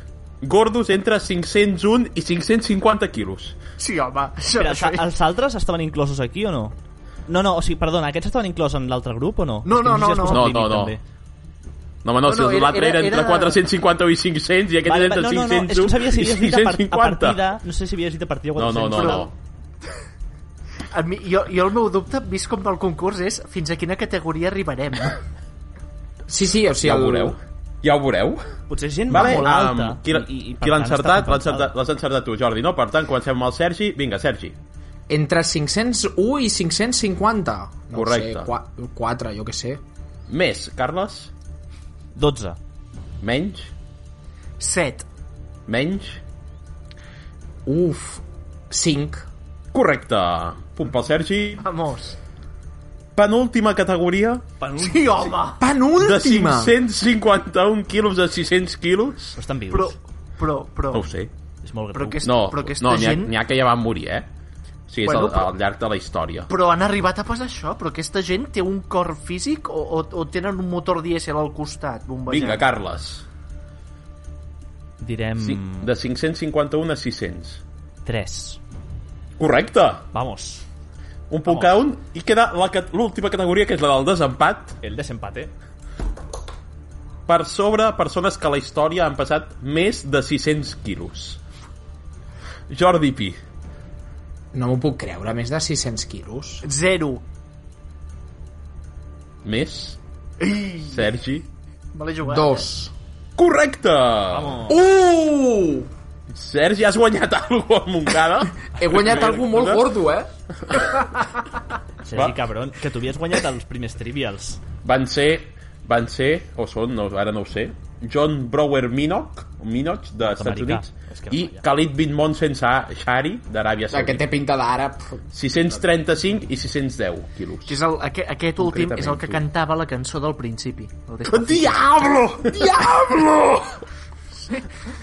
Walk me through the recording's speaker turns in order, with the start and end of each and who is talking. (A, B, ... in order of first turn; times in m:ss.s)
0:00.4-0:03.6 A
0:03.8-0:05.0 B
0:04.6-0:06.7 C
0:07.3-0:11.0 C
0:09.6-0:10.5 B
0:10.3-0:11.0 A
0:12.0-0:17.4 A
0:12.2-0:13.6 B
0:14.8-0:19.3 C
0:18.6-0:19.3 A
0:19.0-0:19.2 B
0:20.9-0:25.2 B
0:26.3-0:27.4 D
0:26.8-0:28.5 A
0:28.7-0:31.7 C
0:29.1-0:34.6 A
0:29.2-0:29.5 B
0:35.1-0:39.8 D
0:37.9-0:38.5 A
0:40.3-0:41.3 A
0:42.2-0:42.6 C
0:43.2-0:43.7 A
0:44.6-0:45.0 B
0:45.7-0:46.2 A
0:47.6-0:49.2 D
0:49.7-0:51.6 A
0:51.6-0:52.2 B
0:53.2-0:54.4 A
0:54.6-0:55.3 C
0:54.8-0:55.6 B
0:55.6-0:56.7 D
0:56.0-0:59.3 A
0:59.4-1:00.0 C
0:59.7-1:01.1 B
1:00.9-1:01.3 A
1:01.6-1:02.3 C
1:01.9-1:03.3 B
1:02.2-1:04.2 A
1:04.9-1:06.5 A
1:05.0-1:05.5 B
1:06.5-1:12.7 B
1:12.3-1:13.2 A
1:15.0-1:15.9 C
1:15.4-1:17.6 A
1:18.0-1:18.6 C
1:19.4-1:20.0 A
1:20.1-1:20.6 C
1:21.3-1:24.8 A
1:21.5-1:21.8 C
1:24.8-1:25.5 C
1:27.3-1:31.4 A
1:32.7-1:33.4 A
1:34.5-1:36.6 D
1:36.6-1:37.2 B
1:39.4-1:40.0 A
1:40.4-1:41.1 B
1:40.9-1:41.4 A
1:41.9-1:42.7 B
1:42.2-1:42.9 D
1:43.4-1:44.6 A
1:44.3-1:44.8 C
1:44.7-1:45.9 D
1:46.3-1:49.8 A
1:48.8-1:50.3 D
1:50.7-1:51.0 A
1:52.0-1:54.6 C
1:54.8-2:04.2 A
2:00.2-2:01.6 C
2:03.9-2:05.2 D
2:05.3-2:07.8 A
2:07.7-2:11.8 B
2:08.6-2:09.4 A
2:11.3-2:12.7 A
2:12.4-2:13.7 D